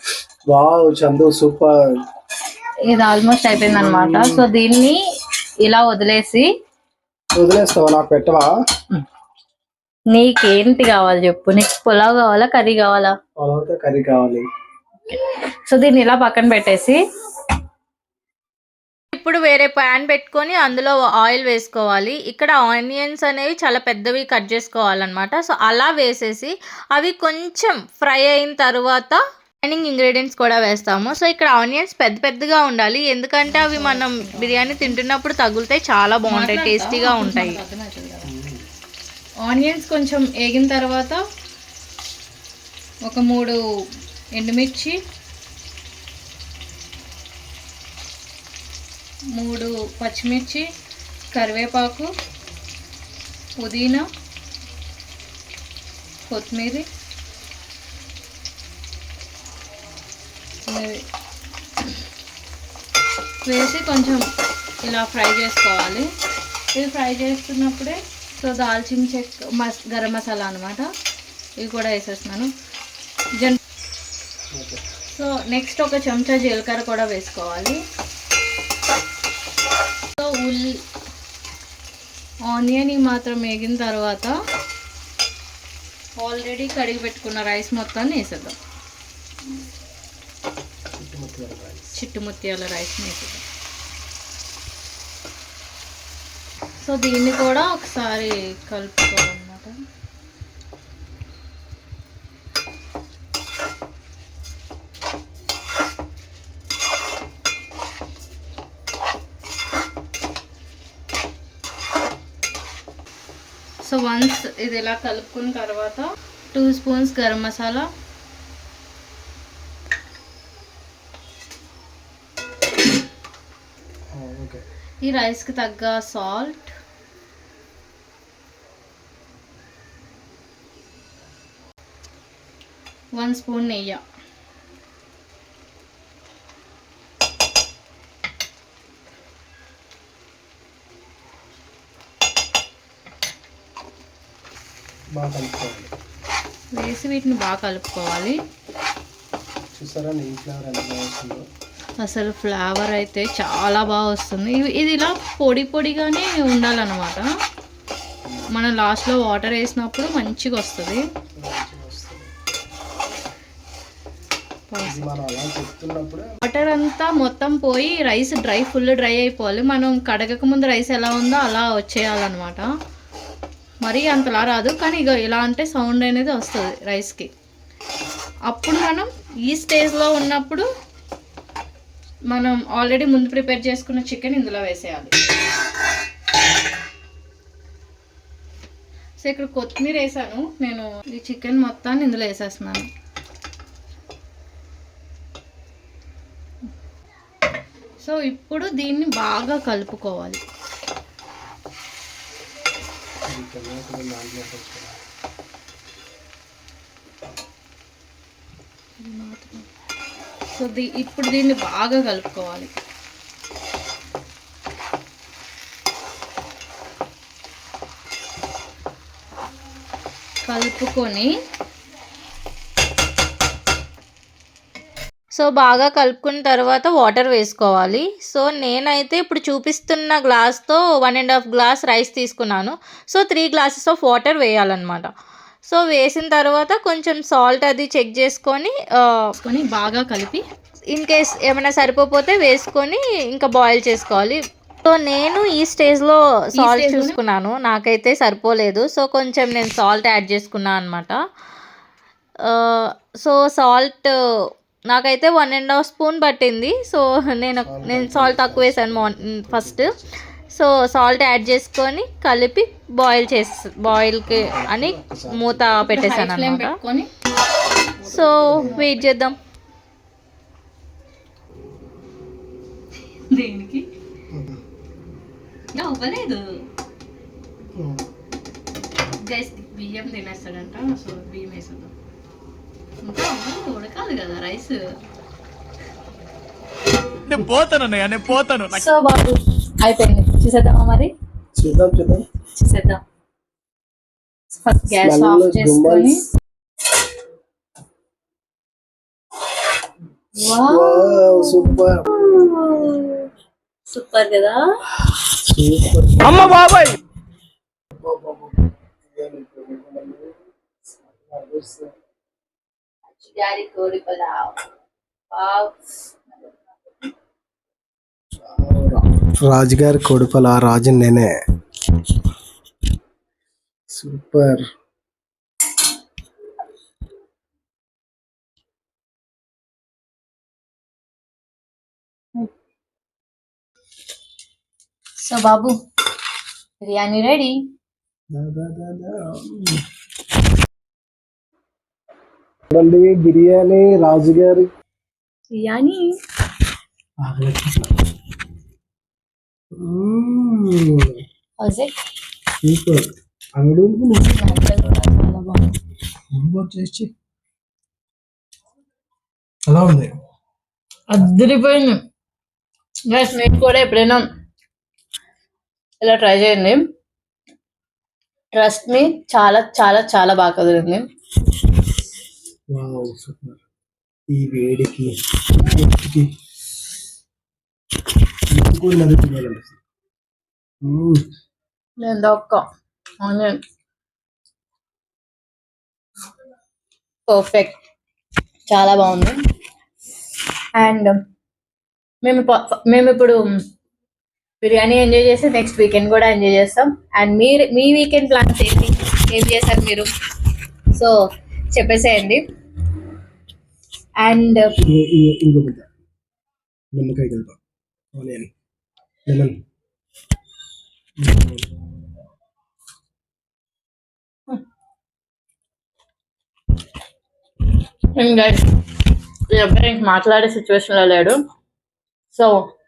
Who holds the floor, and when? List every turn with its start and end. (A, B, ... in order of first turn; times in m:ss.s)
0:00.5-0:01.7 A
0:02.9-0:05.0 B
0:03.6-0:04.5 A
0:05.6-0:06.5 B
0:07.4-0:08.5 A
0:10.1-0:13.1 B
0:13.4-0:14.5 A
0:15.7-0:17.0 B
0:19.1-0:37.6 C
0:33.5-0:35.0 B
0:36.3-0:38.3 B
0:38.3-0:38.7 A
0:39.4-0:41.2 B
0:43.1-0:43.6 B
0:44.4-0:45.0 B
0:49.4-0:50.6 B
0:51.3-0:52.1 B
0:53.6-0:54.1 B
0:56.3-0:56.9 B
1:00.7-1:01.0 B
1:03.5-1:04.2 B
1:04.8-1:06.1 B
1:06.7-1:10.9 B
1:11.6-1:12.5 B
1:14.5-1:14.8 A
1:15.1-1:17.8 B
1:20.2-1:20.8 B
1:22.5-1:24.3 B
1:26.2-1:28.6 B
1:31.0-1:32.0 A
1:32.0-1:33.4 B
1:36.8-1:39.8 B
1:53.8-1:57.9 B
2:04.1-2:04.6 A
2:05.0-2:06.7 B
2:13.2-2:14.0 B
2:25.1-2:25.9 A
2:26.7-2:28.4 B
2:29.8-2:31.4 A
2:32.0-2:37.2 B
2:38.5-2:41.0 B
2:41.4-2:42.3 A
2:44.7-2:45.2 B
2:44.8-2:46.3 A
2:46.4-2:52.7 B
2:53.8-2:57.3 B
2:58.5-3:00.6 B
3:02.3-3:05.1 B
3:09.2-3:12.9 B
3:18.0-3:20.4 B
3:23.3-3:25.0 A
3:29.0-3:29.7 B
3:30.5-3:32.7 B
3:40.5-3:41.3 B
3:45.3-3:55.1 C
3:55.7-3:59.2 C
3:59.4-4:00.4 B
4:00.9-4:11.2 C
4:06.6-4:07.2 B
4:12.5-4:14.1 C
4:14.9-4:19.9 C
4:17.6-4:20.2 A
4:20.5-4:26.7 C
4:24.3-4:25.8 A
4:25.8-4:27.1 B
4:28.0-4:29.1 B
4:28.1-4:29.4 C
4:28.5-4:28.8 A
4:33.3-4:33.9 B
4:34.3-4:34.6 A
4:35.7-4:36.4 B
4:37.8-4:38.1 A
4:39.2-4:41.9 B
4:43.0-4:44.8 B
4:47.3-4:48.8 D
4:48.7-4:51.1 B
4:51.6-4:52.2 A
4:52.6-4:53.0 B
4:54.6-4:56.2 B
4:55.0-4:56.1 A
5:00.4-5:03.3 B
5:00.4-5:02.0 A
5:03.9-5:04.6 B
5:05.4-5:06.6 A
5:06.3-5:07.0 D
5:08.0-5:10.3 A
5:11.2-5:11.9 A
5:13.2-5:14.6 B
5:15.3-5:16.9 B
5:18.5-5:21.3 A
5:23.9-5:24.6 A
5:35.2-5:35.7 B
5:36.8-5:37.6 B
5:38.3-5:39.8 A
5:42.7-5:44.7 A
5:45.6-5:46.0 B
5:47.2-5:48.0 A
5:49.8-5:51.2 A
5:51.6-5:51.9 B
5:52.6-5:54.5 A
5:54.2-5:55.7 B
5:56.3-5:57.1 A
5:59.7-6:00.2 A
6:01.1-6:02.0 B
6:03.1-6:04.2 B
6:06.0-6:06.8 B
6:08.5-6:11.0 B
6:12.7-6:13.6 A
6:14.3-6:15.1 A
6:15.7-6:16.3 A
6:18.5-6:19.8 A
6:20.8-6:21.2 A
6:22.0-6:22.6 B
6:23.2-6:23.6 B
6:27.3-6:27.8 B
6:28.7-6:29.4 B
6:30.8-6:31.1 B
6:32.2-6:33.4 B
6:34.6-6:40.1 B
6:41.7-6:42.4 B
6:44.2-6:44.7 B
6:44.8-6:45.8 A
6:46.9-6:47.6 A
6:48.2-6:48.5 A
6:49.3-6:49.6 A
6:51.2-6:51.7 A
6:58.2-6:58.6 B
6:59.5-7:01.4 B
7:02.3-7:02.6 B